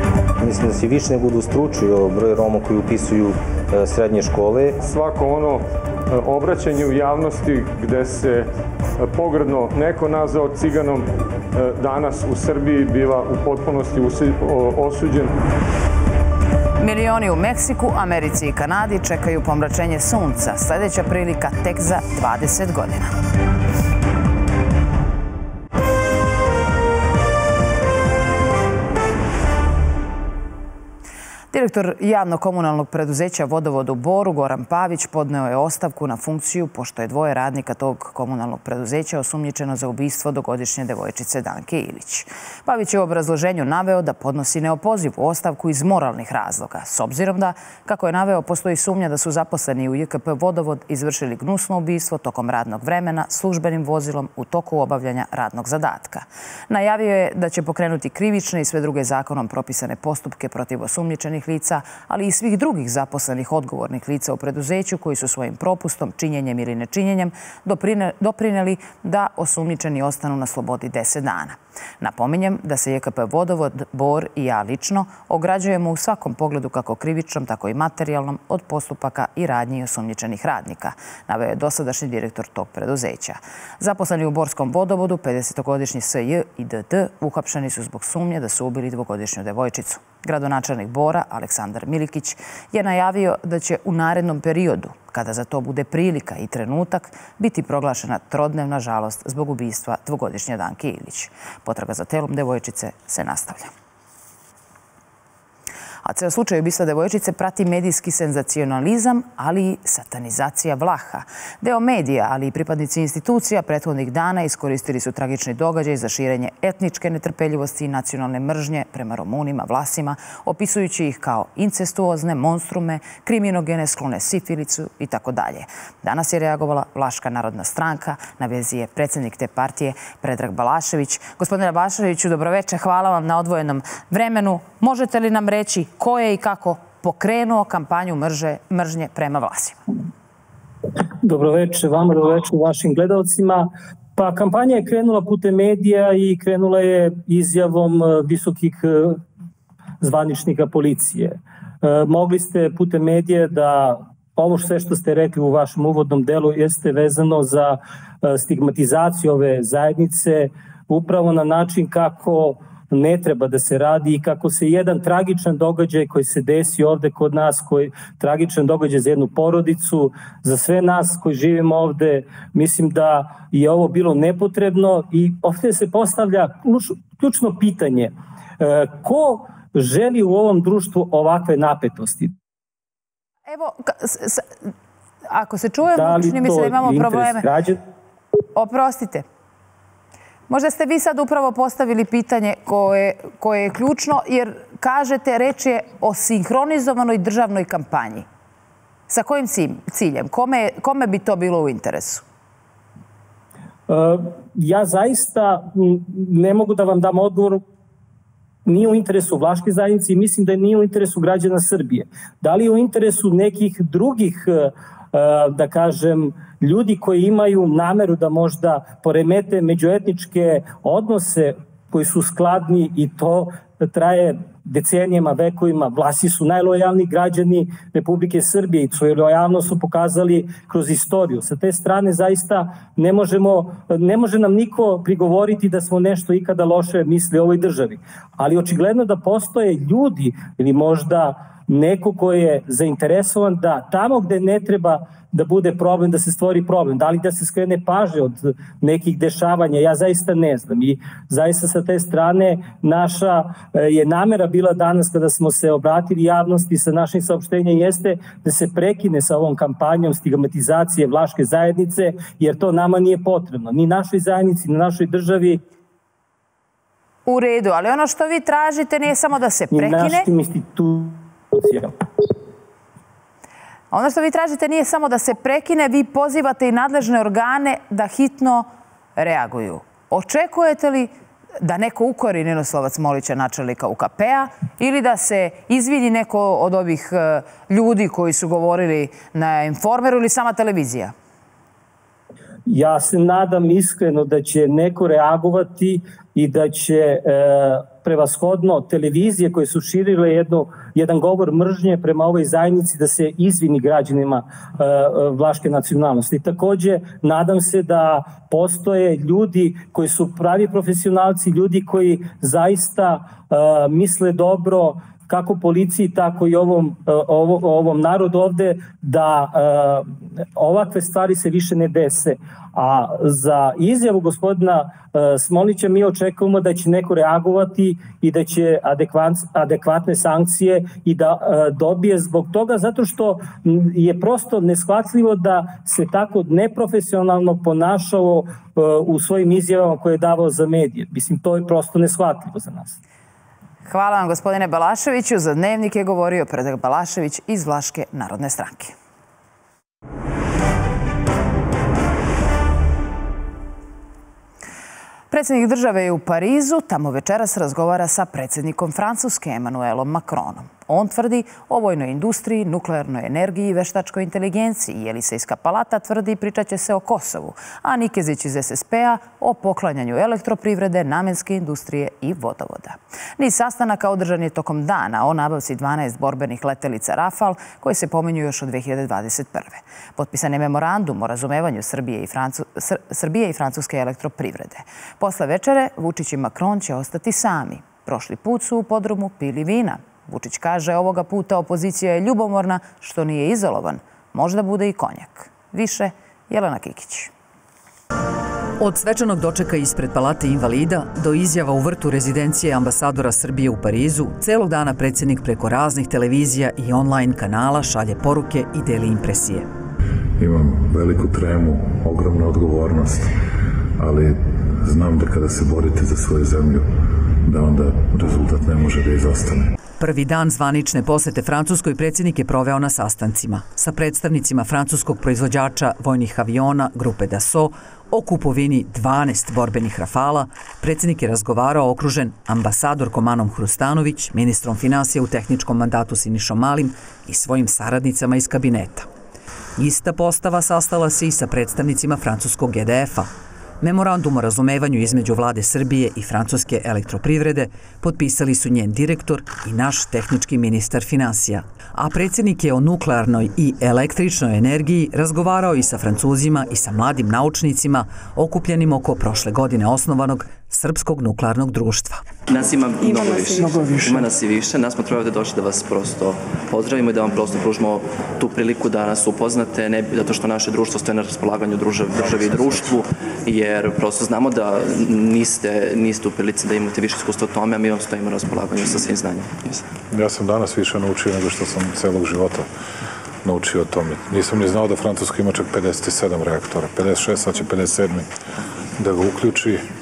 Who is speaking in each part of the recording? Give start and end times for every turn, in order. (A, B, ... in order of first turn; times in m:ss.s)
0:00.4-0:04.8 A
0:04.8-0:15.3 B
0:16.8-0:23.1 C
0:31.5-1:43.7 C
1:46.0-2:19.8 C
2:21.2-2:29.2 D
2:30.0-3:02.3 D
3:03.5-3:04.5 C
3:05.3-3:07.4 C
3:05.9-3:07.8 D
3:08.5-3:09.2 C
3:10.5-3:18.2 C
3:19.1-3:22.2 C
3:23.9-3:27.6 D
3:28.6-4:25.6 D
4:27.2-4:30.3 C
4:29.7-4:31.9 D
4:33.9-4:51.1 C
4:52.7-5:43.0 D
5:43.8-5:48.9 C
5:55.3-6:37.3 C
6:38.8-6:49.7 E
6:50.4-6:53.3 F
6:54.0-6:56.8 F
6:57.4-6:59.7 F
7:00.0-7:19.1 E
7:19.8-7:23.3 E
7:23.8-7:42.3 E
7:42.4-7:59.9 G
8:00.1-8:02.7 F
8:03.4-8:08.3 F
8:09.0-8:09.8 F